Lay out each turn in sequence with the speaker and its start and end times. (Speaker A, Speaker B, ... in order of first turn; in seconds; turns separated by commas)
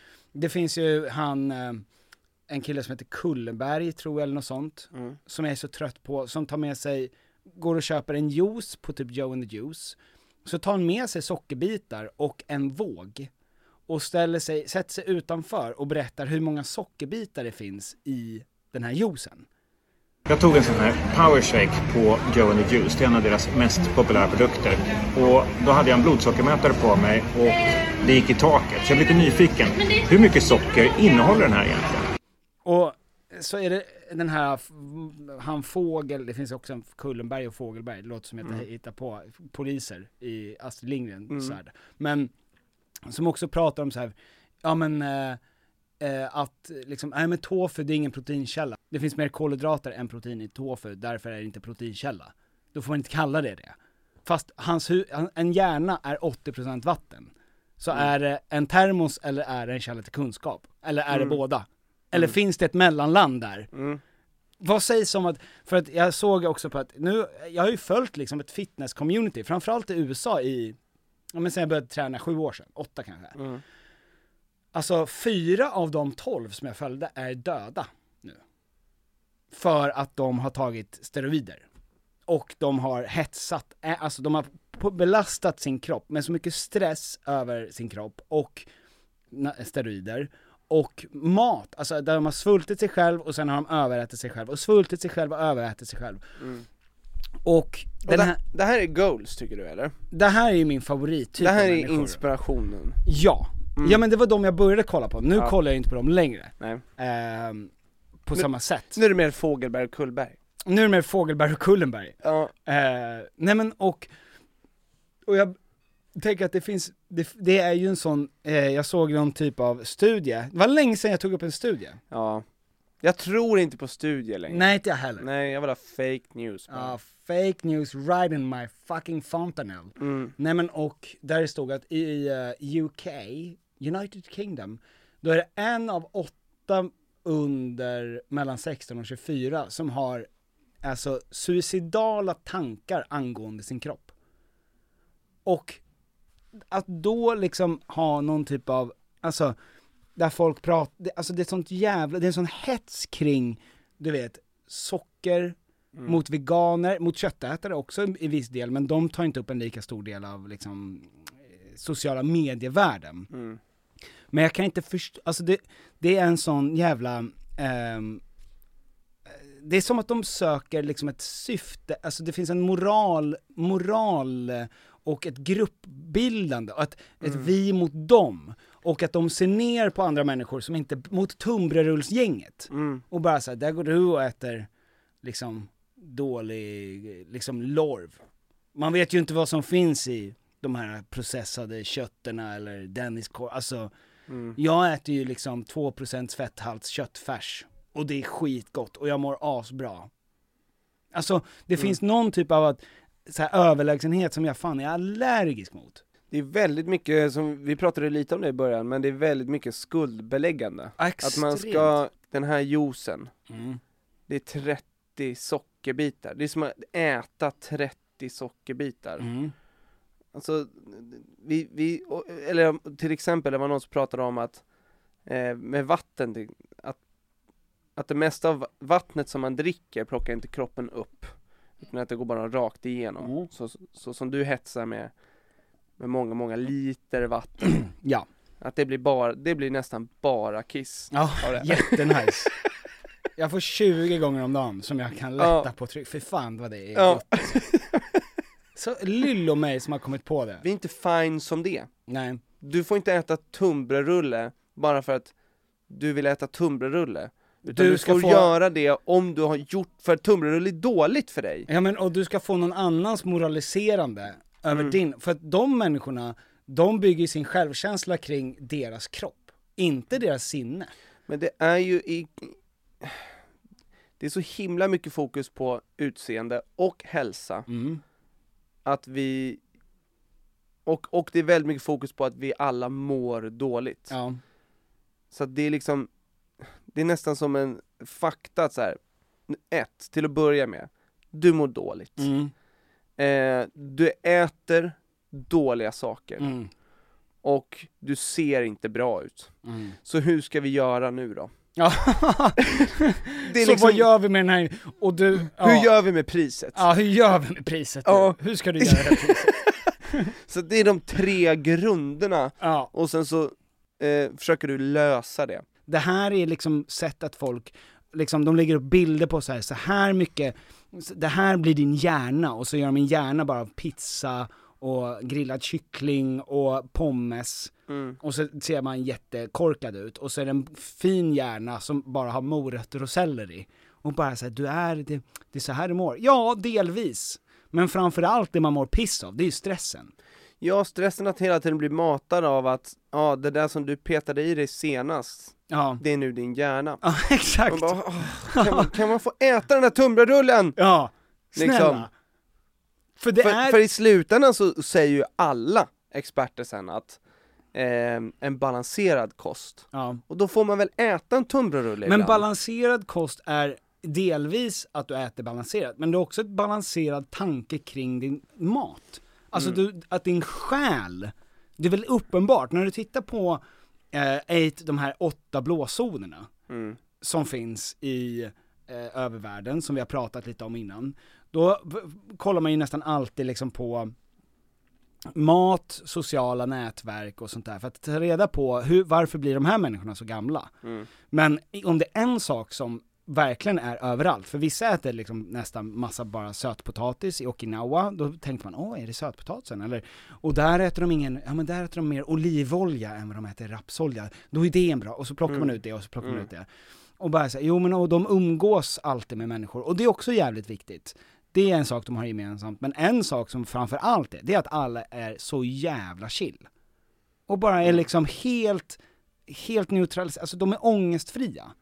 Speaker A: 0.3-1.8, Speaker A: 2.5-13.3, Speaker A: 13.9-19.5, Speaker B: 20.2-32.0, Speaker A: 32.6-42.3, Speaker C: 41.3-41.5, Speaker A: 43.1-45.4, Speaker A: 46.0-63.7, Speaker C: 61.1-61.4, Speaker C: 63.7-64.0, Speaker A: 64.6-70.8, Speaker A: 71.3-73.4, Speaker C: 73.4-73.6, Speaker A: 74.7-78.4, Speaker A: 79.5-81.6, Speaker A: 82.3-88.7, Speaker A: 89.3-96.2, Speaker C: 96.4-96.6, Speaker A: 97.4-98.4, Speaker C: 98.0-100.0, Speaker A: 100.1-102.2, Speaker C: 101.4-103.0, Speaker A: 103.0-107.7, Speaker A: 108.2-109.0, Speaker C: 108.3-110.4, Speaker A: 110.7-114.1, Speaker C: 112.2-112.5, Speaker A: 115.2-115.6, Speaker A: 116.2-122.0, Speaker C: 122.1-122.4, Speaker C: 123.0-127.0, Speaker A: 124.5-125.2, Speaker A: 126.7-140.3, Speaker C: 130.0-130.3, Speaker A: 140.8-144.1, Speaker A: 145.4-145.8, Speaker A: 146.7-149.6, Speaker A: 150.2-163.3, Speaker C: 163.3-163.6, Speaker A: 164.3-168.2, Speaker A: 169.3-184.7, Speaker C: 177.2-177.5, Speaker C: 182.7-183.0, Speaker A: 185.2-188.2, Speaker A: 188.7-193.9, Speaker C: 194.3-194.6, Speaker A: 194.6-200.1, Speaker A: 201.1-206.0, Speaker C: 206.3-213.3, Speaker A: 211.0-211.9, Speaker A: 213.5-213.8, Speaker C: 214.3-219.2, Speaker A: 219.2-219.5, Speaker C: 220.3-224.6, Speaker C: 225.2-227.0, Speaker C: 228.0-235.1, Speaker A: 233.2-233.5, Speaker C: 236.0-237.8, Speaker A: 237.9-238.3, Speaker C: 238.6-242.3, Speaker A: 241.1-242.5, Speaker A: 243.4-247.6, Speaker C: 245.4-245.7, Speaker C: 246.9-248.2, Speaker A: 248.8-250.6, Speaker C: 250.6-251.9, Speaker A: 252.1-252.4, Speaker C: 252.6-255.3, Speaker C: 255.9-261.7, Speaker A: 257.7-258.5, Speaker A: 261.7-270.9, Speaker C: 271.3-273.3, Speaker C: 274.2-277.7, Speaker A: 277.7-278.0, Speaker C: 278.9-279.6, Speaker C: 280.9-284.1, Speaker A: 284.1-284.4, Speaker C: 285.3-286.1, Speaker C: 286.9-292.3, Speaker A: 292.2-292.5, Speaker C: 293.2-296.5, Speaker A: 296.4-296.7, Speaker C: 297.4-301.5, Speaker A: 299.6-299.9, Speaker A: 301.8-305.9, Speaker C: 303.4-304.1, Speaker C: 305.6-306.8, Speaker A: 306.7-309.5, Speaker C: 308.1-309.9, Speaker C: 310.5-315.6, Speaker A: 312.6-312.9, Speaker A: 315.9-340.1, Speaker C: 327.9-328.2, Speaker C: 340.6-347.1, Speaker A: 345.7-346.0, Speaker A: 347.0-348.9, Speaker C: 347.7-350.8, Speaker A: 350.8-352.1, Speaker C: 351.6-352.1, Speaker A: 353.2-353.8, Speaker C: 353.4-357.2, Speaker C: 357.7-362.4, Speaker A: 359.9-360.2, Speaker A: 362.1-373.6, Speaker A: 374.1-376.5, Speaker C: 376.7-377.0, Speaker A: 377.2-384.1, Speaker A: 385.3-390.7, Speaker A: 391.3-406.7, Speaker C: 406.2-406.5, Speaker A: 407.2-416.7, Speaker A: 417.5-421.7